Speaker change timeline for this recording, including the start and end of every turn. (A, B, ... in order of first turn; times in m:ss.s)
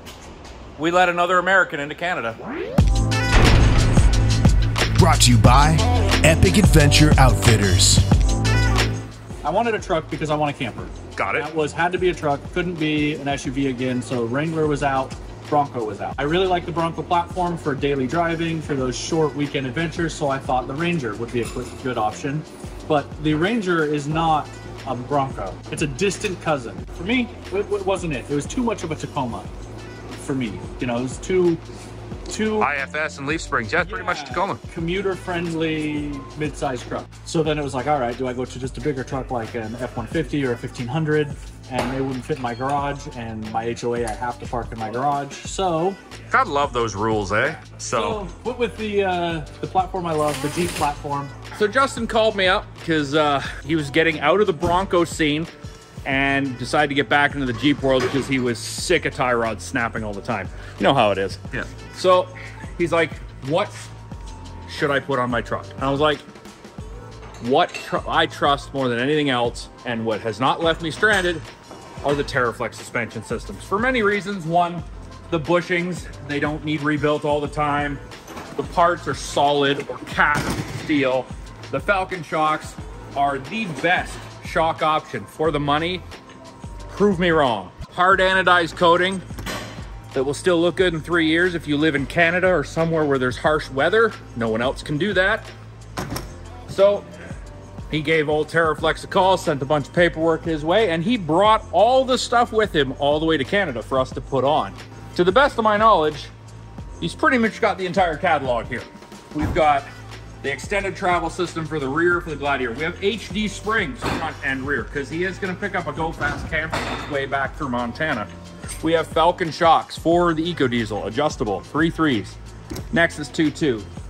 0:00.8-0:02.4 A
0:05.0-0:08.0 B
0:09.4-0:29.5 C
0:11.1-0:11.5 A
0:30.2-0:31.6 C
0:32.3-0:32.7 C
0:32.6-0:34.6 A
0:33.8-0:46.0 C
0:46.3-0:48.2 A
0:47.9-0:51.3 C
0:51.5-0:55.5 A
0:56.0-1:03.9 A
1:04.7-1:06.2 A
1:07.4-1:11.4 A
1:12.0-1:18.0 A
1:18.6-1:26.0 A
1:26.9-1:29.2 A
1:30.1-1:35.5 A
1:36.7-1:37.0 A
1:37.9-1:46.3 A
1:47.0-1:49.9 A
1:50.4-2:02.4 A
2:02.9-2:03.9 A